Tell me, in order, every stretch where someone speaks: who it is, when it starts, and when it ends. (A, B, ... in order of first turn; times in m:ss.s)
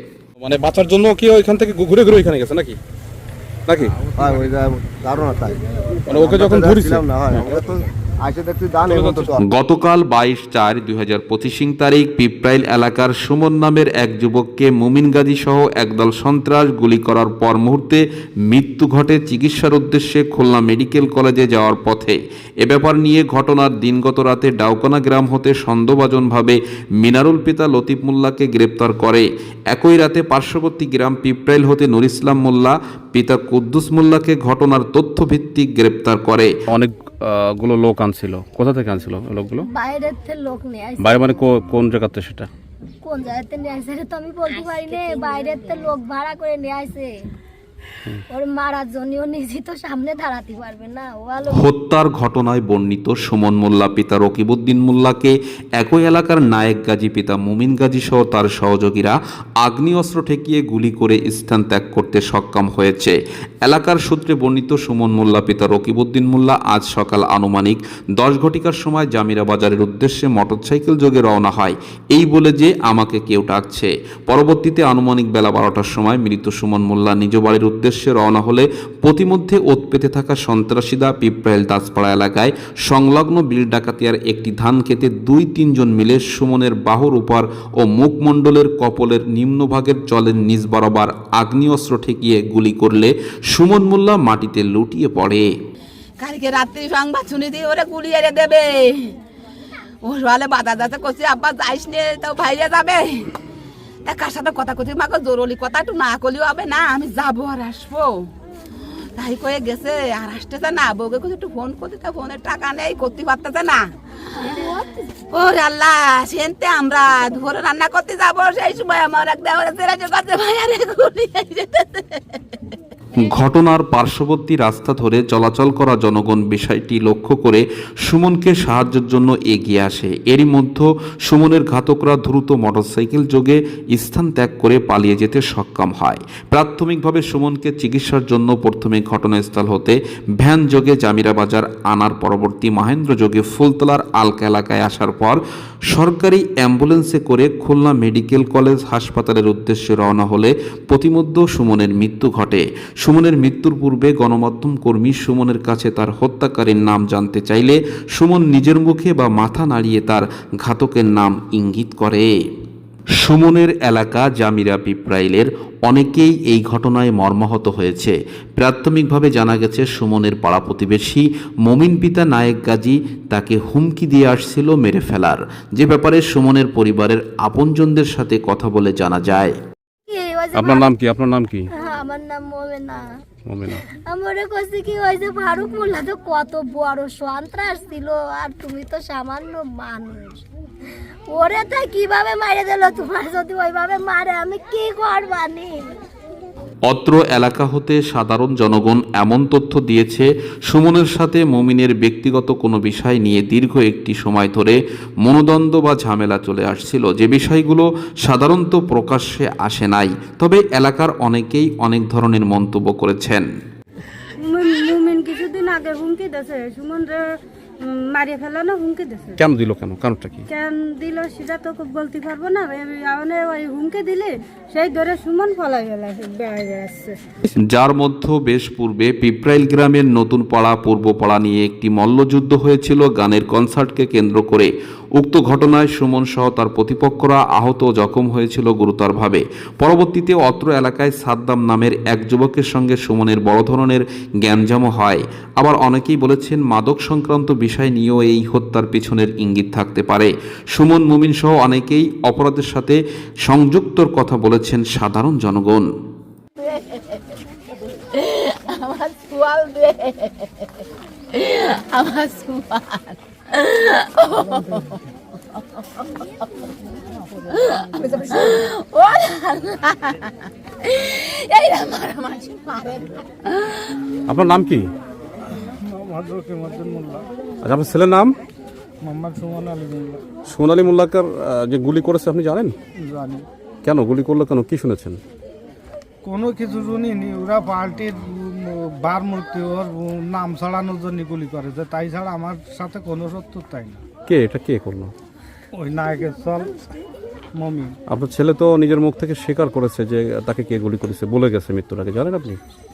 0:00.4-0:02.8 A
0:03.7-0:04.0 A
0:04.2-0:09.4 B
0:06.1-0:07.6 A
0:08.9-0:09.4 A
0:09.4-0:36.5 C
0:36.7-0:39.7 A
0:39.7-0:41.5 D
0:41.0-0:42.5 A
0:43.0-0:47.1 D
0:48.3-0:51.7 D
0:51.5-1:35.5 C
1:36.2-1:39.2 E
1:40.0-1:43.3 E
1:44.0-1:48.3 E
1:49.2-2:02.4 E
2:03.2-2:25.4 C
2:25.9-2:42.3 C
2:43.2-2:59.6 C
3:00.1-3:00.9 D
3:00.5-3:01.7 A
3:01.7-3:03.0 D
3:03.5-3:03.8 A
3:03.9-3:10.4 D
3:11.3-3:16.0 D
3:16.8-3:33.4 C
3:34.4-3:37.3 F
3:37.8-3:39.4 F
3:39.4-3:40.4 A
3:40.5-3:47.2 F
3:47.6-4:15.9 C
4:16.6-4:17.4 E
4:18.0-4:20.7 E
4:21.3-4:25.0 E
4:25.8-4:26.2 E
4:27.5-4:34.0 E
4:34.3-4:34.9 A
4:35.8-4:37.3 G
4:37.6-4:38.4 A
4:39.0-4:40.2 G
4:40.5-4:42.8 A
4:43.0-4:43.4 G
4:43.8-4:45.2 A
4:46.2-4:54.0 G
4:54.3-4:55.1 A
4:55.7-4:56.8 G
4:57.6-4:58.0 G
4:58.1-5:02.6 A